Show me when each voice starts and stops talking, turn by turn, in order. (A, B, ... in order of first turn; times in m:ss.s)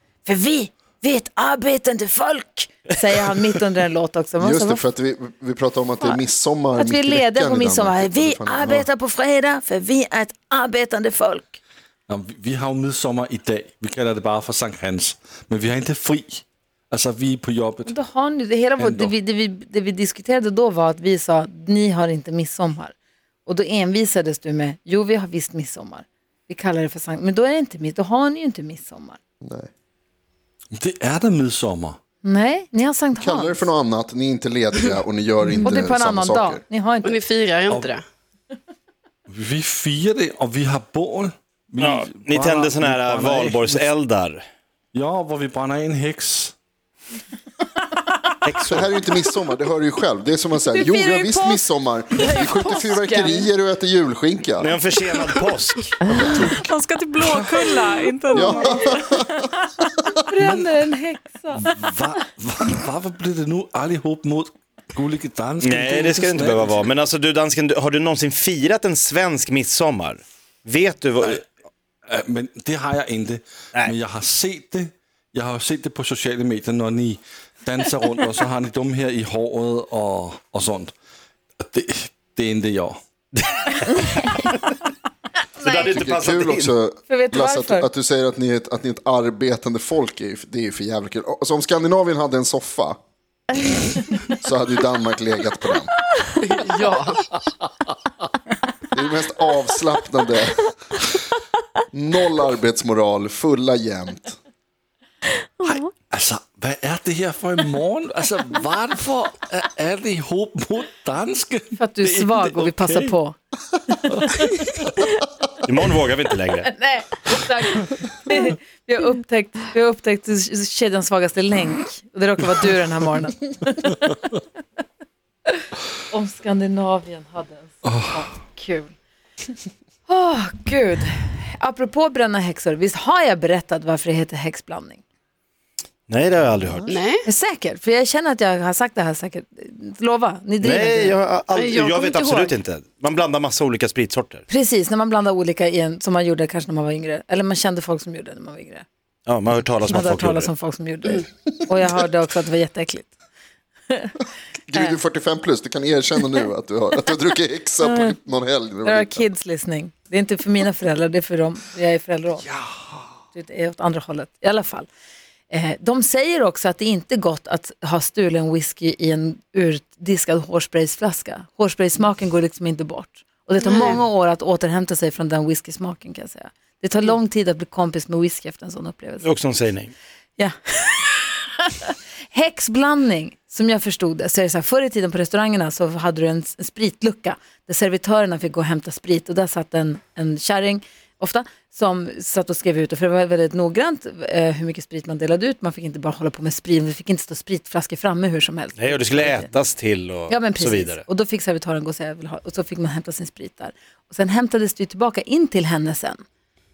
0:00.2-0:04.8 A
0:04.4-0:08.9 B
0:06.8-0:11.6 A
0:12.1-0:17.9 C
0:17.8-0:22.9 A
0:18.8-0:19.1 C
0:23.4-0:29.2 A
0:29.4-0:29.7 B
0:30.7-0:32.0 C
0:32.2-0:33.7 A
0:33.2-0:36.6 B
0:35.6-0:37.2 A
0:37.0-0:38.0 D
0:39.3-0:43.9 C
0:41.8-0:44.4 E
0:44.9-0:46.5 C
0:48.4-0:48.8 E
0:48.7-0:54.7 B
0:50.7-0:51.6 A
0:52.2-0:53.4 D
0:54.6-0:55.8 E
0:56.4-0:59.1 F
0:58.3-0:59.4 B
1:00.2-1:01.7 A
1:00.4-1:00.7 C
1:01.5-1:06.8 C
1:05.6-1:11.4 E
1:12.1-1:20.9 C
1:21.6-1:23.0 C
1:25.6-1:26.0 A
1:25.6-1:26.7 E
1:25.9-1:33.0 B
1:27.1-1:27.9 A
1:34.3-1:35.9 B
1:36.4-1:37.2 D
1:38.9-1:40.7 B
1:41.9-1:44.4 B
1:45.6-1:53.1 C
1:51.7-1:53.4 A
1:54.0-1:54.3 C
1:54.1-1:54.6 A
1:55.6-1:56.7 E
1:56.6-2:04.3 A
2:05.6-2:08.9 A
2:10.1-2:15.0 A
2:16.1-2:16.9 E
2:16.6-2:16.9 B
2:16.9-2:17.2 D
2:17.2-2:21.2 A
2:20.6-2:24.4 E
2:21.5-2:22.5 D
2:24.5-2:28.8 A
2:29.2-2:30.5 E
2:29.9-2:33.1 A
2:33.9-2:34.1 A
2:34.7-2:39.2 B
2:37.8-2:38.1 A
2:38.8-2:42.5 A
2:43.3-2:44.9 A
2:45.5-2:59.3 A
2:53.6-2:53.9 D
2:59.2-2:59.9 E
3:00.4-3:19.5 A
3:18.8-3:21.0 E
3:20.3-3:26.2 A